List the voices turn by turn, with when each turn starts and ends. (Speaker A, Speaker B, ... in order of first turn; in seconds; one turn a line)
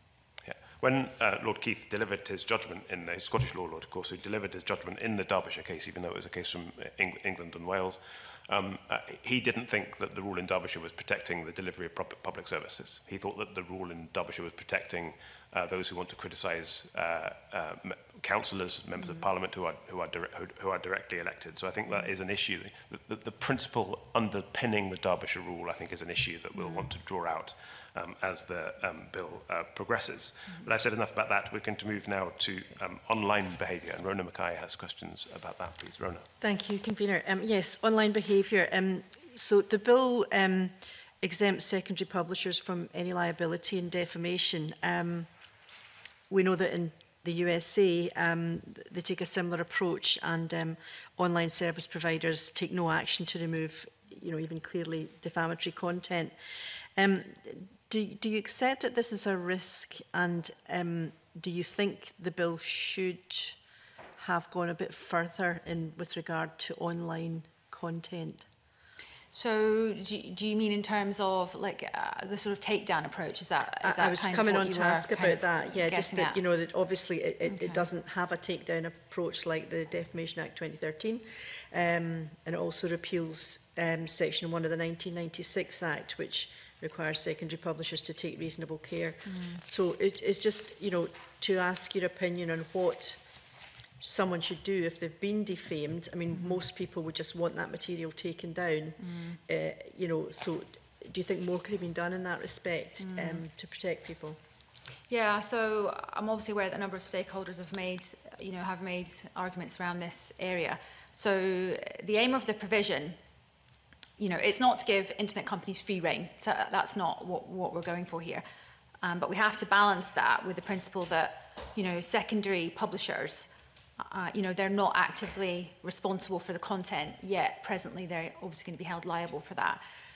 Speaker A: 0.4-36.3
Speaker B: 26.6-26.9
Speaker C: 36.4-45.3
Speaker C: 46.3-56.3
Speaker C: 57.0-63.6
Speaker C: 64.2-68.5
Speaker B: 69.3-76.4
Speaker C: 73.8-93.2
Speaker B: 77.4-77.9
Speaker B: 89.2-89.6
Speaker C: 94.0-104.4
Speaker B: 96.3-96.6
Speaker B: 99.0-99.4
Speaker B: 103.0-103.4
Speaker B: 105.1-113.2
Speaker B: 114.2-118.4
Speaker B: 119.0-129.8